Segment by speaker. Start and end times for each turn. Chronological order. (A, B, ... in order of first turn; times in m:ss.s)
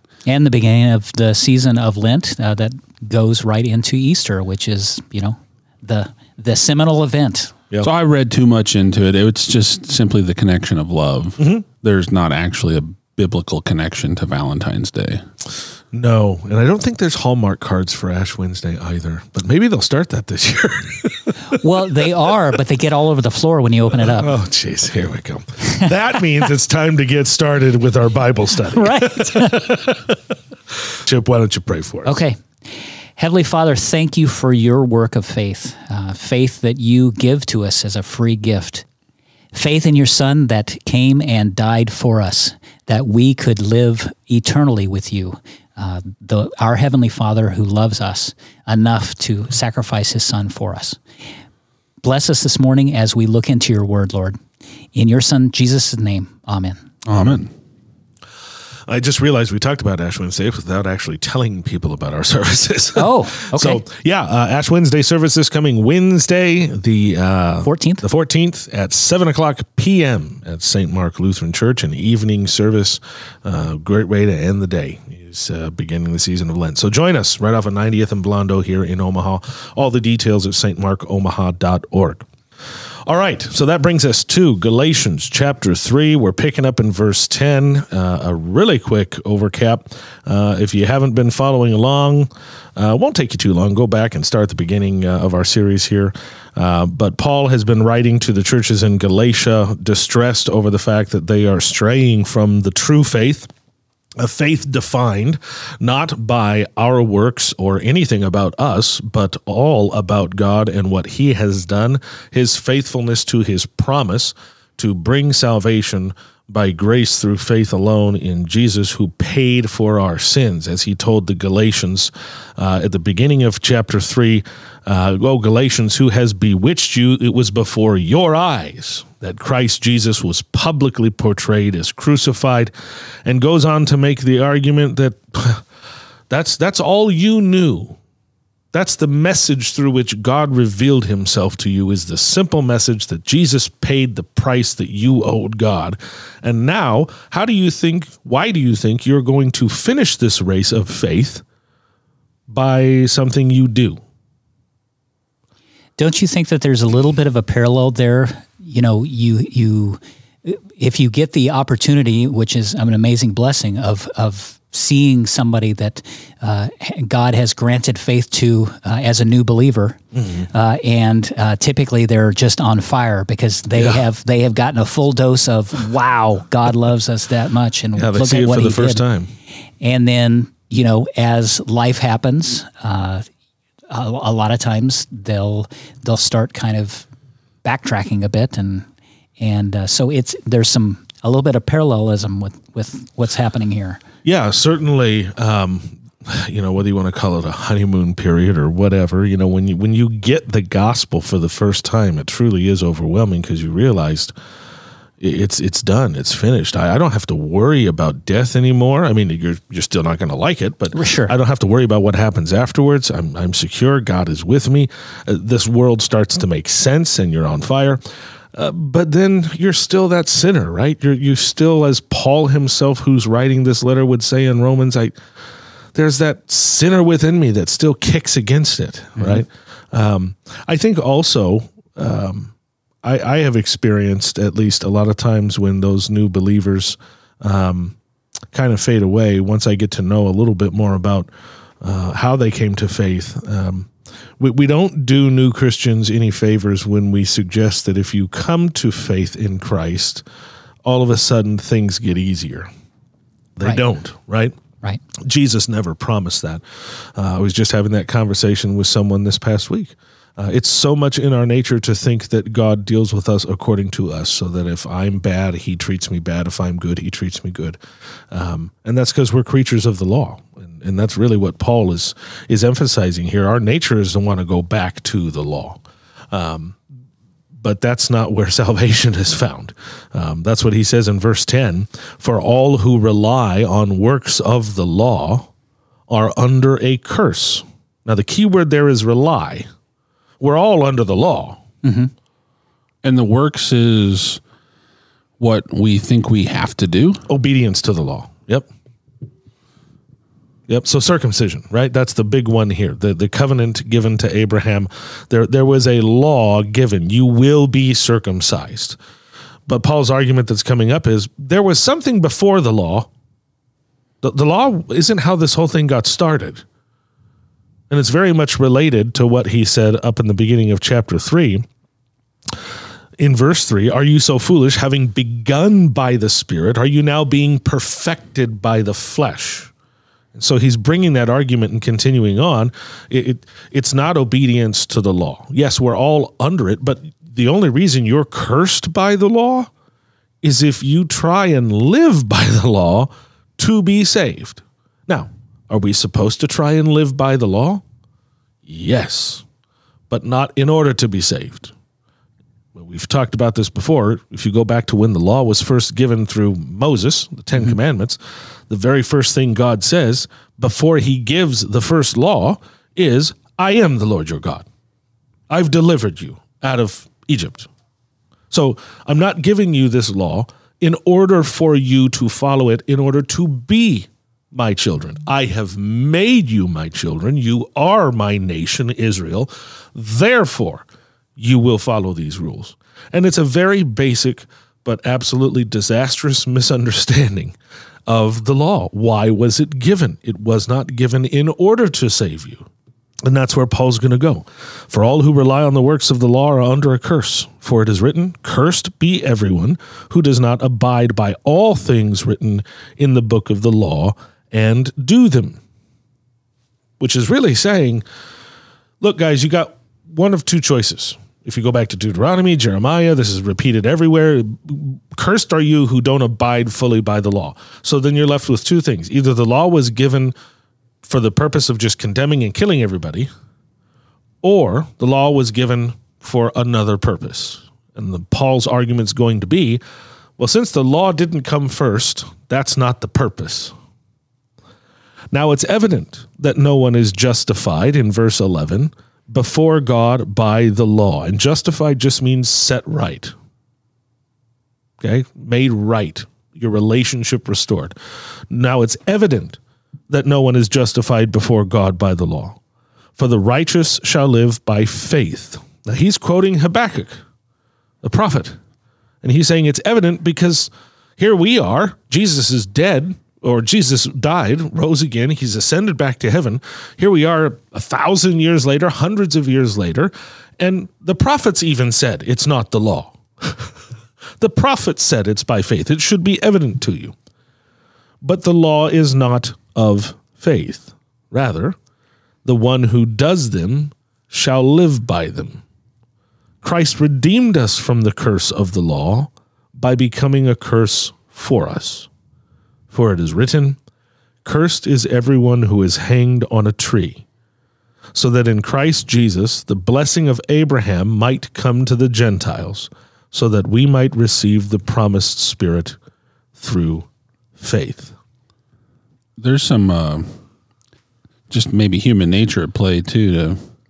0:00.2-0:07.5 A
0:07.8-0:15.2 B
0:11.4-0:11.6 C
0:15.9-0:21.6 C
0:21.5-0:24.3 A
0:24.0-0:32.2 C
0:28.7-0:29.6 A
0:32.0-0:38.8 A
0:39.5-0:51.0 A
0:52.0-0:54.4 A
0:54.9-0:56.8 A
0:57.0-0:57.5 B
0:57.1-0:57.4 C
0:58.9-1:22.3 C
1:03.0-1:03.8 A
1:07.6-1:08.0 A
1:23.1-1:43.5 C
1:44.2-2:12.7 C
2:13.2-2:15.6 C
2:16.3-2:18.0 C
2:18.7-2:31.4 C
2:32.5-2:34.0 C
2:36.0-2:50.0 A
2:50.1-2:50.5 C
2:50.5-2:59.0 A
2:53.8-2:54.0 C
2:58.0-2:59.3 C
2:59.8-3:03.2 A
3:03.9-3:07.1 A
3:07.6-3:08.9 A
3:09.4-3:14.0 A
3:14.2-3:24.3 C
3:25.2-3:38.0 C
3:30.9-3:31.3 A
3:38.5-3:45.1 C
3:45.9-3:58.0 C
3:49.2-3:49.4 A
3:58.5-4:01.3 C
4:01.8-4:10.2 C
4:10.8-4:12.7 C
4:13.6-4:14.6 C
4:15.2-4:27.8 C
4:28.3-4:36.8 C
4:37.6-4:45.5 C
4:46.1-4:49.7 C
4:50.4-4:51.6 C
4:51.8-4:52.1 A
4:53.0-4:54.4 B
4:55.4-4:57.2 B
4:57.3-4:58.7 C
5:00.7-5:09.0 C
5:09.7-5:13.1 C
5:14.2-5:16.6 C
5:17.9-5:21.6 C
5:23.2-5:29.7 C
5:30.3-5:39.7 C
5:40.4-5:47.8 C
5:48.6-5:49.4 C
5:50.1-5:51.7 C
5:52.7-5:58.2 C
5:58.7-6:04.6 C
6:05.5-6:07.7 C
6:08.5-6:20.8 C
6:21.4-6:27.6 C
6:28.1-6:32.7 C
6:33.2-6:45.6 C
6:47.0-6:48.0 C
6:49.0-7:00.3 C
7:01.0-7:03.3 C
7:04.4-7:09.8 C
7:10.4-7:13.7 C
7:15.3-7:23.3 C
7:25.0-7:28.0 C
7:28.5-7:32.6 C
7:33.2-7:37.2 C
7:38.0-7:38.6 C
7:39.2-7:53.7 C
7:54.4-7:57.1 C
7:58.2-8:01.8 C
8:02.4-8:05.6 C
8:06.6-8:12.1 C
8:12.9-8:13.8 C
8:14.4-8:17.2 C
8:18.1-8:26.0 C
8:26.6-8:28.1 C
8:29.4-8:30.4 B
8:31.5-8:33.6 B